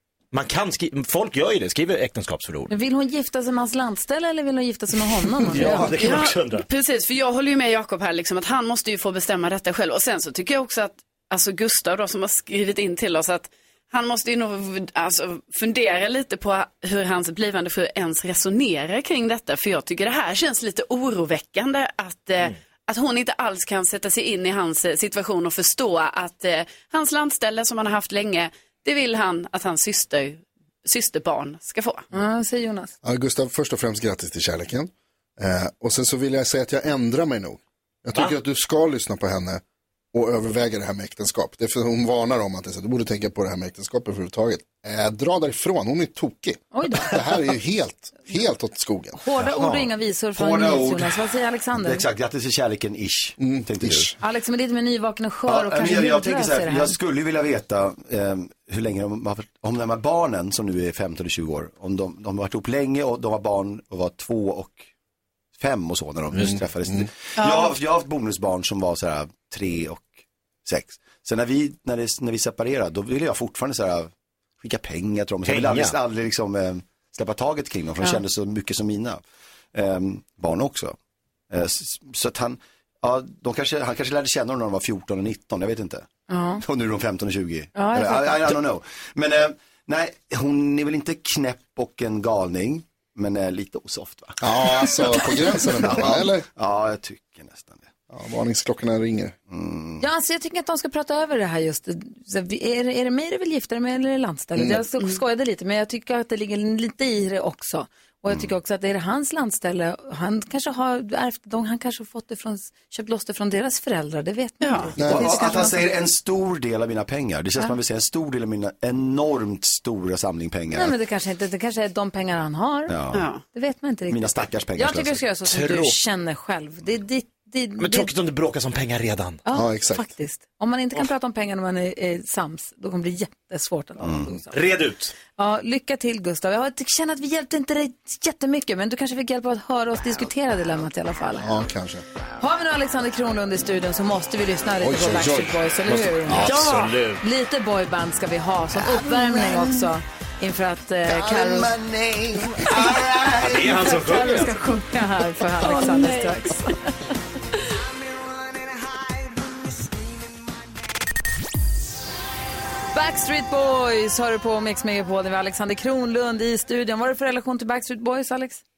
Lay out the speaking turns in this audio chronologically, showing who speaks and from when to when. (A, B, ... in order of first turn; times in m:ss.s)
0:00.3-0:02.7 A
0:02.7-0:06.2 B
0:05.5-0:06.6 A
0:05.8-0:32.0 C
0:32.1-0:32.9 B
0:33.0-0:39.6 D
0:40.1-0:49.2 D
0:46.7-0:47.3 B
0:49.2-0:52.0 B
0:49.4-0:49.9 A
0:50.4-0:51.2 E
0:51.8-0:54.1 E
0:53.4-0:54.1 D
0:54.2-0:57.0 B
0:55.5-1:04.8 E
1:05.6-1:19.2 E
1:07.4-1:07.7 C
1:15.5-1:16.0 A
1:19.7-1:21.0 E
1:21.5-1:37.9 E
1:26.3-1:26.6 B
1:27.8-1:28.6 B
1:34.4-1:36.5 D
1:38.1-1:39.4 D
1:39.5-1:40.0 E
1:40.0-1:55.9 B
1:44.6-1:44.8 D
1:54.6-1:54.9 C
1:55.0-2:01.0 E
1:55.0-1:55.5 D
2:00.7-2:02.9 B
2:02.9-2:03.3 E
2:03.1-2:03.4 C
2:03.5-2:08.1 B
2:04.1-2:05.2 E
2:05.5-2:06.0 A
2:07.8-2:09.4 A
2:09.5-2:14.6 B
2:09.5-2:10.1 D
2:14.0-2:14.4 E
2:14.5-2:15.1 A
2:15.4-2:21.5 B
2:21.4-2:22.0 D
2:22.4-2:26.6 B
2:24.8-2:26.7 D
2:26.4-2:27.2 A
2:26.4-2:27.0 C
2:27.2-2:31.7 B
2:28.7-2:29.9 E
2:31.1-2:34.4 E
2:32.6-2:33.0 B
2:33.4-2:34.5 A
2:33.9-2:36.9 B
2:35.6-2:36.5 C
2:42.9-2:48.6 B